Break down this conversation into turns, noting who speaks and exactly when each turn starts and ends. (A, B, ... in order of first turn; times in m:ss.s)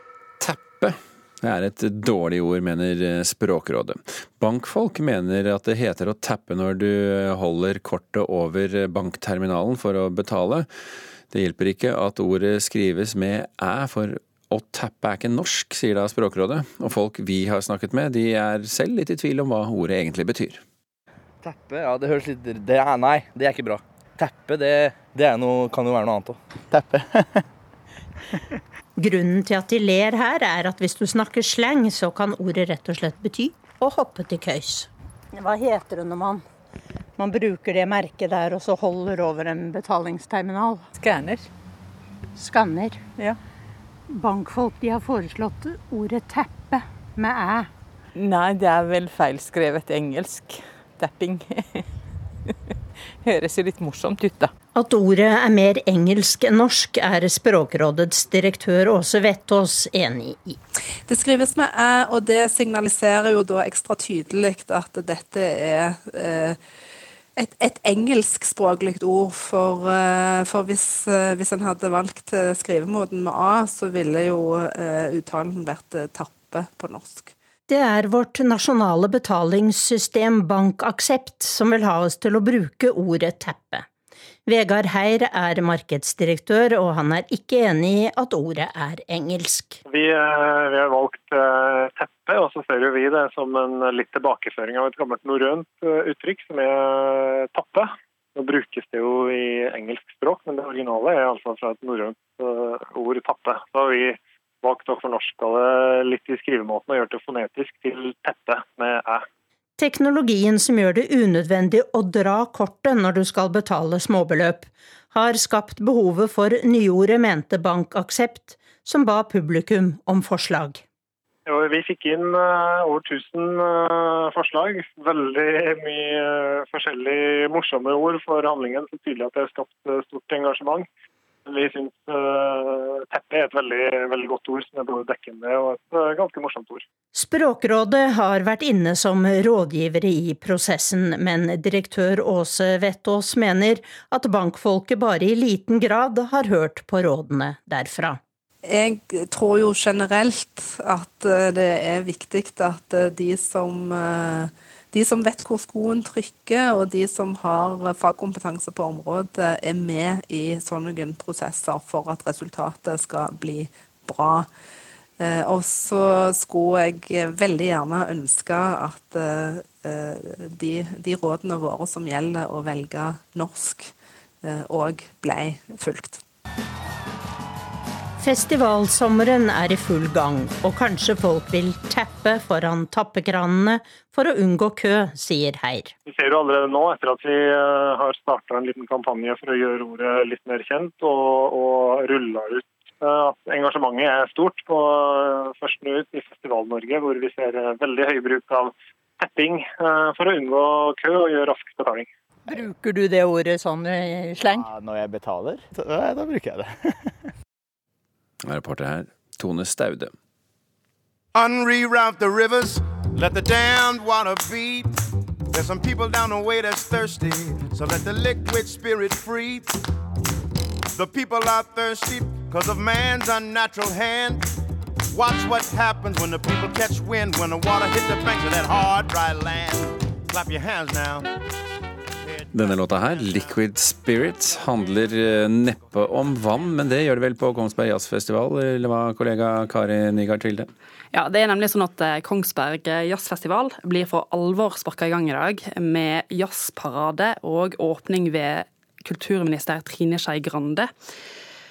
0:00.4-0:10.7 A
0:11.3-0:20.6 A
0:21.4-0:26.4 B
0:26.8-0:27.0 C
0:29.0-0:36.4 D
0:37.2-0:40.9 D
0:40.9-0:41.5 E
0:42.4-0:43.2 D
0:44.1-0:47.7 D
0:48.1-0:51.8 E
0:53.2-0:54.5 E
0:54.7-1:00.6 D
1:01.1-1:06.6 F
1:07.4-1:17.3 F
1:17.7-1:23.8 D
1:24.4-1:29.8 D
1:29.9-1:49.2 G
1:49.8-2:00.8 D
2:01.5-2:10.8 G
2:11.5-2:16.8 G
2:17.1-2:28.2 D
2:28.6-2:44.5 F
2:45.2-2:53.9 F
2:54.4-2:56.2 F
2:58.2-3:05.9 D
3:06.0-3:22.1 G
3:22.5-3:24.7 D
3:24.6-3:26.8 C
3:28.4-3:30.1 A
3:31.3-3:35.0 H
3:35.5-3:39.8 H
3:40.9-3:44.5 H
3:45.1-3:51.3 H
3:52.2-3:53.3 H
3:52.5-4:00.7 A
4:01.1-4:10.9 I